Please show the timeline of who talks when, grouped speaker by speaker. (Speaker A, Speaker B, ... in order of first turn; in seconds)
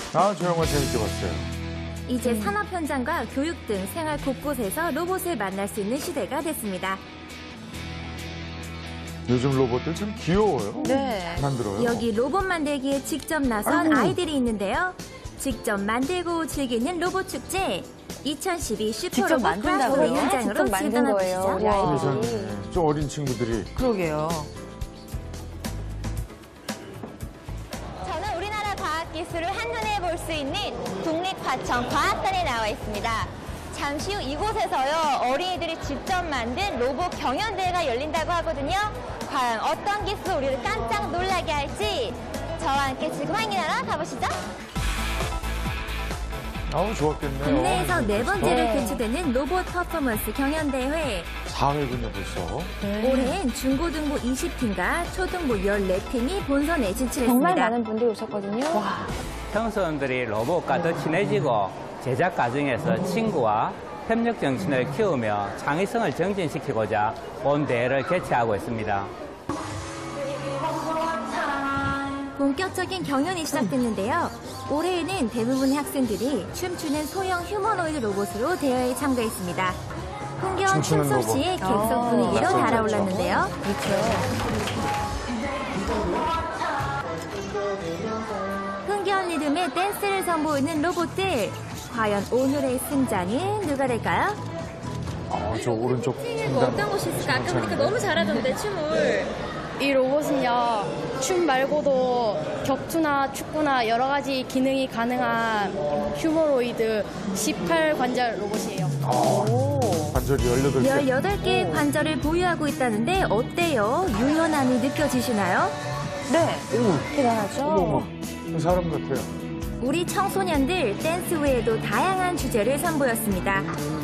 Speaker A: 0.1-1.5, 9.3-12.1, 13.7-14.1, 21.7-23.7, 46.7-48.8, 51.5-52.9, 80.5-83.3, 95.3-98.2, 109.0-111.1, 116.7-119.3
Speaker B: 2.1-7.0, 11.8-21.8, 47.4-51.3, 53.0-57.7, 72.3-79.8, 80.4-83.6, 88.8-94.4, 110.8-115.8, 119.8-123.7
Speaker C: 2.2-2.6, 10.8-11.4, 13.7-14.1, 19.1-22.5, 23.8-24.5, 48.5-49.0, 52.9-53.4, 57.2-59.0, 81.6-84.2, 109.3-110.2, 111.4-111.8, 116.3-118.1
Speaker D: 28.0-44.4
Speaker E: 59.5-69.1
Speaker F: 96.5-108.9